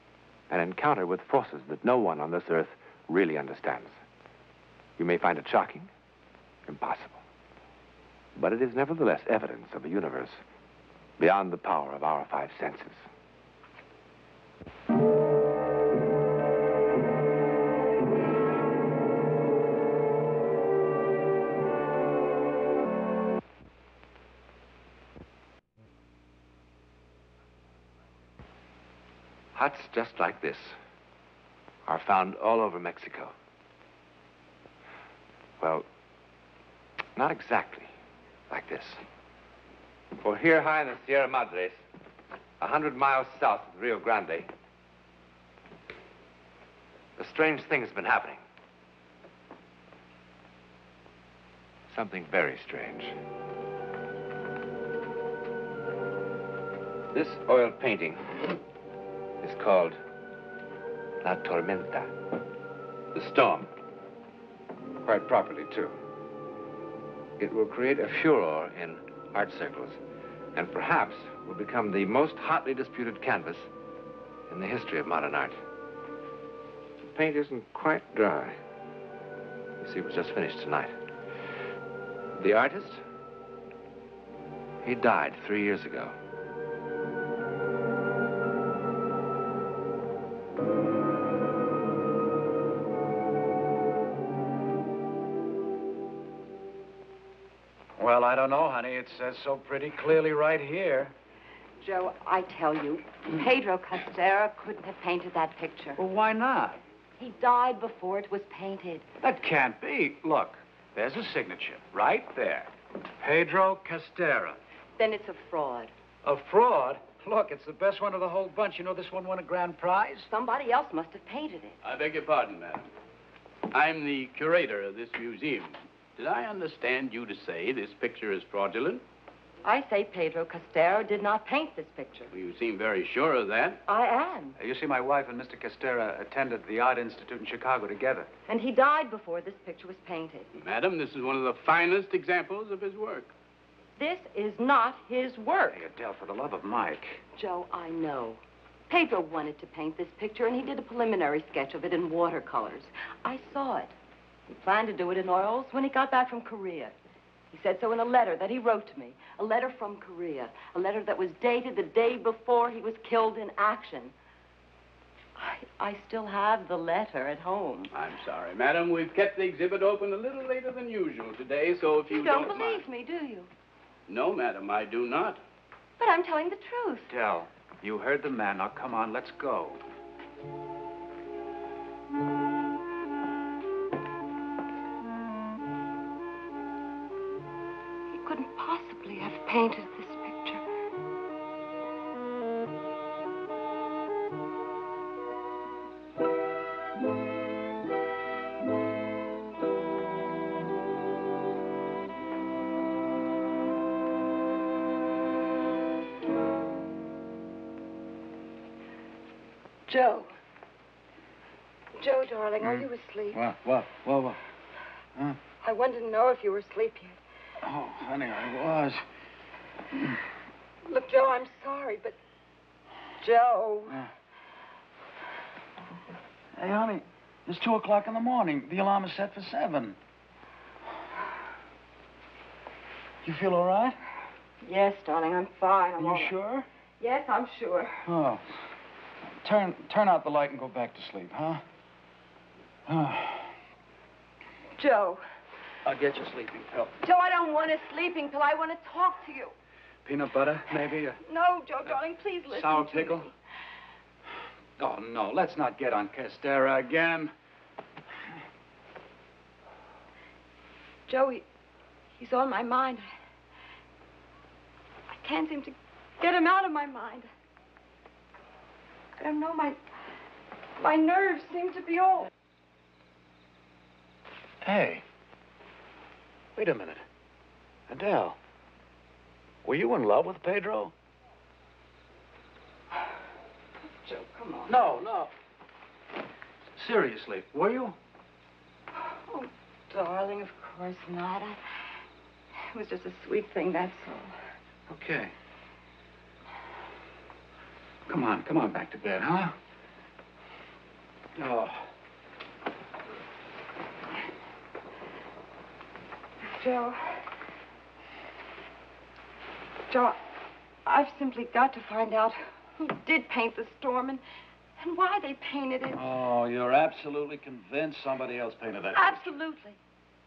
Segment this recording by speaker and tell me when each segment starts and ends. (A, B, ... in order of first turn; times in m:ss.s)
0:00.5-0:03.9 A
0:05.0-0:05.9 A
0:06.6-0:07.2 A
0:08.4-0:10.4 A
0:11.2-0:13.0 A
0:29.6-0:30.8 A
0:31.9-0:33.3 A
0:35.6-0:35.9 A
0:37.2-0:37.9 A
0:38.5-0:39.0 A
0:40.2-0:41.8 A
0:42.6-0:44.5 A
0:47.2-0:48.4 A
0:51.9-0:53.1 A
0:57.1-0:58.4 A
0:59.4-1:00.0 A
1:01.2-1:02.1 A
1:03.1-1:03.7 A
1:05.0-1:05.9 A
1:07.4-1:10.0 A
1:10.5-1:13.7 A
1:14.5-1:15.6 A
1:17.1-1:18.6 A
1:19.8-1:20.9 A
1:22.4-1:23.0 A
1:24.8-1:26.1 A
1:38.0-1:41.1 B
1:41.8-1:46.0 C
1:46.0-1:46.8 B
1:47.2-1:49.0 C
1:49.2-1:54.6 B
1:55.0-1:55.9 C
1:56.2-2:00.3 B
2:00.3-2:01.8 C
2:01.8-2:02.9 D
2:03.7-2:09.0 D
2:09.6-2:12.3 C
2:12.3-2:13.8 D
2:13.9-2:14.6 C
2:14.6-2:18.3 B
2:18.5-2:20.5 C
2:20.5-2:23.3 D
2:24.0-2:25.8 C
2:25.7-2:27.2 B
2:27.3-2:33.9 C
2:34.5-2:36.9 C
2:37.5-2:44.1 C
2:45.4-2:47.9 C
2:47.9-2:52.8 D
2:52.1-2:53.5 C
2:54.1-2:55.4 D
2:56.0-2:57.1 C
2:57.1-2:59.8 B
3:08.1-3:10.6 C
3:29.9-3:30.3 C
3:32.0-3:33.4 C
3:32.6-3:34.4 B
3:35.6-3:37.2 C
3:37.6-3:39.0 B
3:40.8-3:42.2 C
3:43.2-3:44.0 C
3:46.5-3:50.0 B
3:53.2-3:54.0 B
3:54.6-3:56.3 C
3:56.0-3:56.7 B
3:57.0-3:58.0 C
3:58.1-3:58.4 B
3:59.4-4:01.6 B
4:02.9-4:03.5 B
4:04.8-4:05.2 C
4:05.8-4:06.9 B
4:07.0-4:09.5 C
4:10.0-4:11.2 B
4:11.2-4:13.3 C
4:12.5-4:13.3 B
4:14.8-4:17.3 B
4:21.1-4:21.5 C
4:22.2-4:23.1 C
4:25.1-4:27.3 C
4:29.2-4:29.8 C
4:30.8-4:32.3 C
4:34.6-4:35.0 B
4:36.6-4:37.0 B
4:37.9-4:38.4 B
4:39.6-4:40.9 B
4:44.0-4:44.8 C
4:44.7-4:45.3 B
4:46.8-4:48.0 B
4:48.9-4:51.9 C
4:52.7-4:54.4 C
4:54.9-4:55.3 B
4:58.1-4:59.6 B
5:01.4-5:01.9 B
5:06.5-5:07.3 C
5:09.9-5:10.2 C
5:10.8-5:14.2 C
5:14.8-5:16.0 C
5:15.9-5:19.3 B
5:18.9-5:19.8 C